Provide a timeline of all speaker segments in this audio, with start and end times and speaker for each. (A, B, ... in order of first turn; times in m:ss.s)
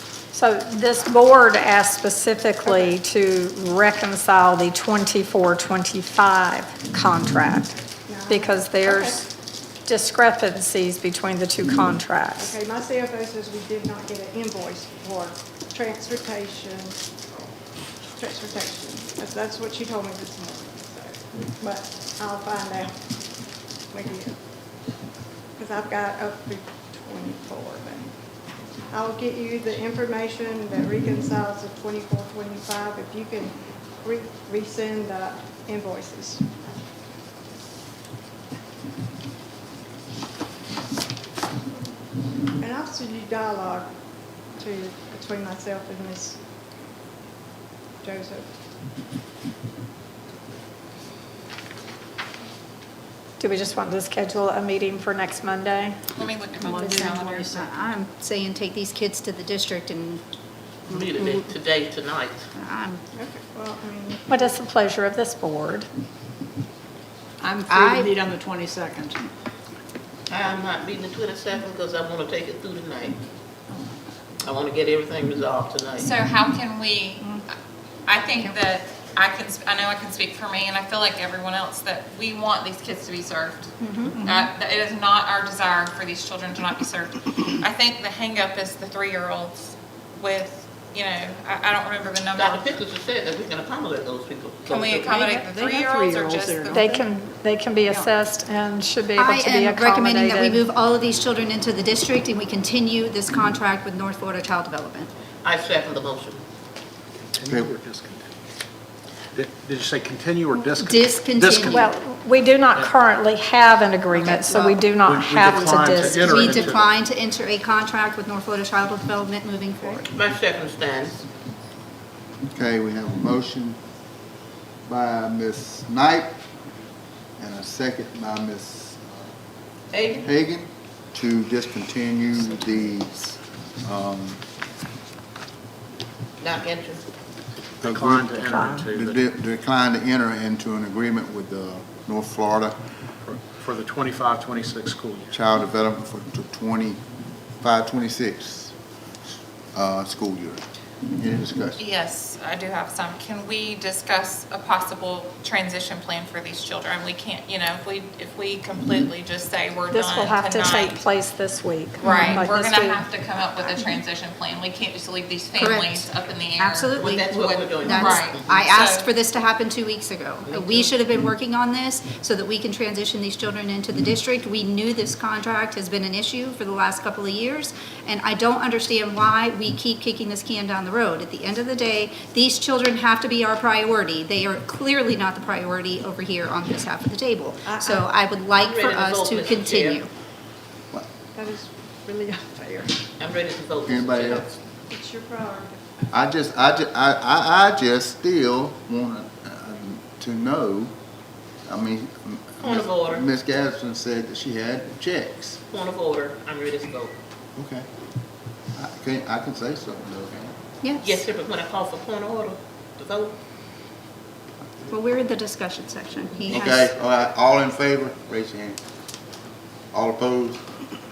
0:00.3-0:07.8 A
0:02.6-0:03.0 B
0:08.1-0:09.2 B
0:08.3-0:09.3 A
0:09.9-0:12.6 A
0:12.4-0:17.0 B
0:18.2-0:23.0 B
0:23.9-0:24.4 B
0:25.6-0:28.1 B
0:28.9-0:36.4 B
0:42.6-0:43.9 B
0:44.6-0:46.4 B
0:48.0-0:48.5 B
0:53.4-0:56.0 A
0:56.2-0:57.6 C
0:56.6-0:57.7 D
0:57.6-1:00.2 E
1:00.9-1:02.5 F
1:02.6-1:03.0 E
1:03.1-1:04.2 B
1:04.3-1:05.9 A
1:07.5-1:09.2 D
1:10.3-1:13.2 F
1:14.4-1:16.1 F
1:16.0-1:17.5 C
1:18.1-1:32.7 C
1:24.1-1:24.5 D
1:32.4-1:35.2 F
1:34.7-1:36.8 C
1:35.1-1:37.0 D
1:36.7-1:40.7 A
1:39.2-1:45.1 E
1:45.4-1:46.4 F
1:47.3-1:48.3 G
1:47.4-1:47.7 H
1:49.3-1:51.9 G
1:50.8-1:51.8 E
1:51.7-1:56.6 A
1:55.0-1:57.0 G
1:56.3-2:00.0 E
1:59.8-2:00.1 B
2:00.1-2:01.2 F
2:02.5-2:03.8 H
2:04.9-2:06.4 H
2:07.4-2:09.3 H
2:09.9-2:10.2 F
2:10.2-2:13.2 H
2:13.8-2:14.4 H
2:16.4-2:17.0 F
2:17.8-2:19.2 G
2:17.8-2:22.8 H
2:23.2-2:25.4 G
2:25.3-2:27.0 H
2:27.6-2:28.7 H
2:29.7-2:31.8 H
2:31.8-2:41.0 C
2:39.9-2:43.0 A
2:42.0-2:42.4 E
2:42.0-2:49.1 C
2:45.6-2:46.1 E
2:46.6-2:47.2 E
2:47.0-2:48.6 F
2:47.8-3:10.1 E
2:50.4-2:50.9 F
3:07.6-3:08.1 B
3:08.6-3:10.0 F
3:11.4-3:13.0 B
3:13.2-3:14.6 F
3:13.8-3:14.4 H
3:14.9-3:16.1 B
3:16.1-3:20.9 H
3:21.7-3:25.6 H
3:22.6-3:23.2 F
3:25.7-3:27.2 F
3:27.6-3:27.9 H
3:28.8-3:30.5 H
3:31.0-3:33.3 F
3:34.9-3:36.9 E
3:36.5-3:38.8 H
3:39.9-3:40.6 H